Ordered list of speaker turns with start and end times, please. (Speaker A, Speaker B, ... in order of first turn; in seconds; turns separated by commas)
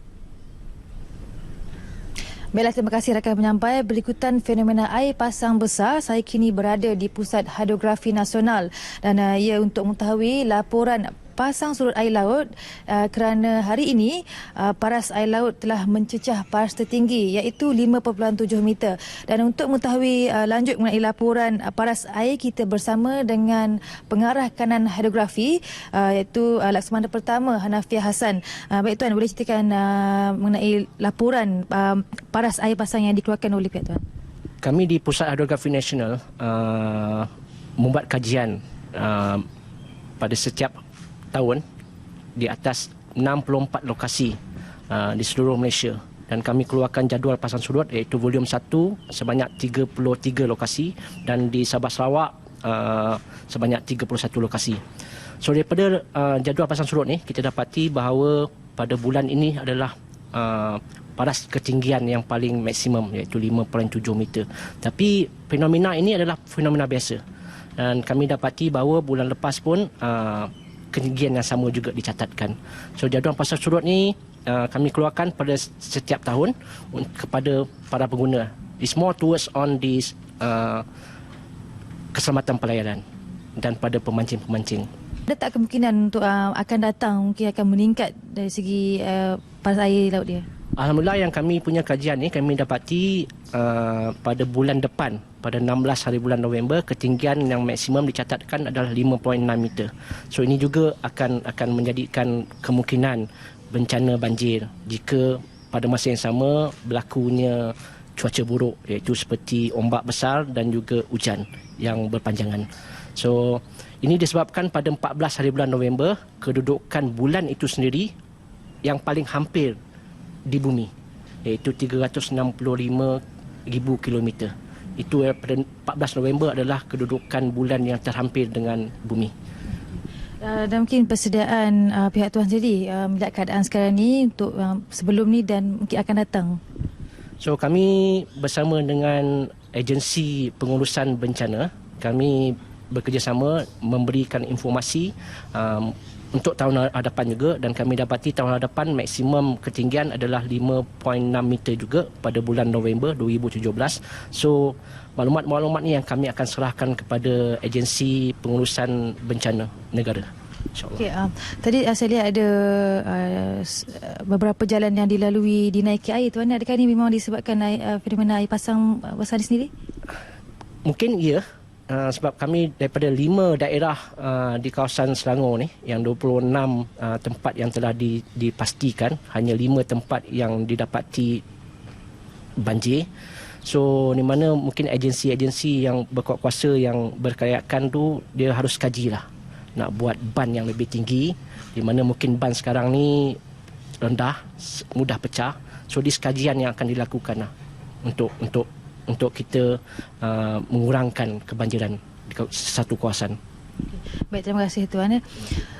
Speaker A: 2.5-34.0, Speaker B: 34.6-39.5, Speaker B: 40.2-40.8, Speaker B: 41.3-41.6, Speaker B: 42.4-44.4, Speaker B: 44.9-54.8, Speaker B: 55.4-67.2, Speaker B: 67.8-80.8, Speaker B: 82.1-83.0, Speaker B: 83.6-84.9, Speaker A: 85.3-90.5, Speaker B: 90.8-118.1, Speaker B: 118.8-119.8, Speaker B: 120.5-120.9, Speaker B: 121.4-129.3, Speaker A: 130.4-136.6, Speaker B: 137.4-161.0, Speaker A: 160.9-169.7, Speaker B: 170.8-181.4, Speaker B: 182.6-183.1, Speaker B: 183.6-193.4, Speaker B: 194.0-197.5, Speaker B: 198.0-203.4, Speaker A: 204.3-205.2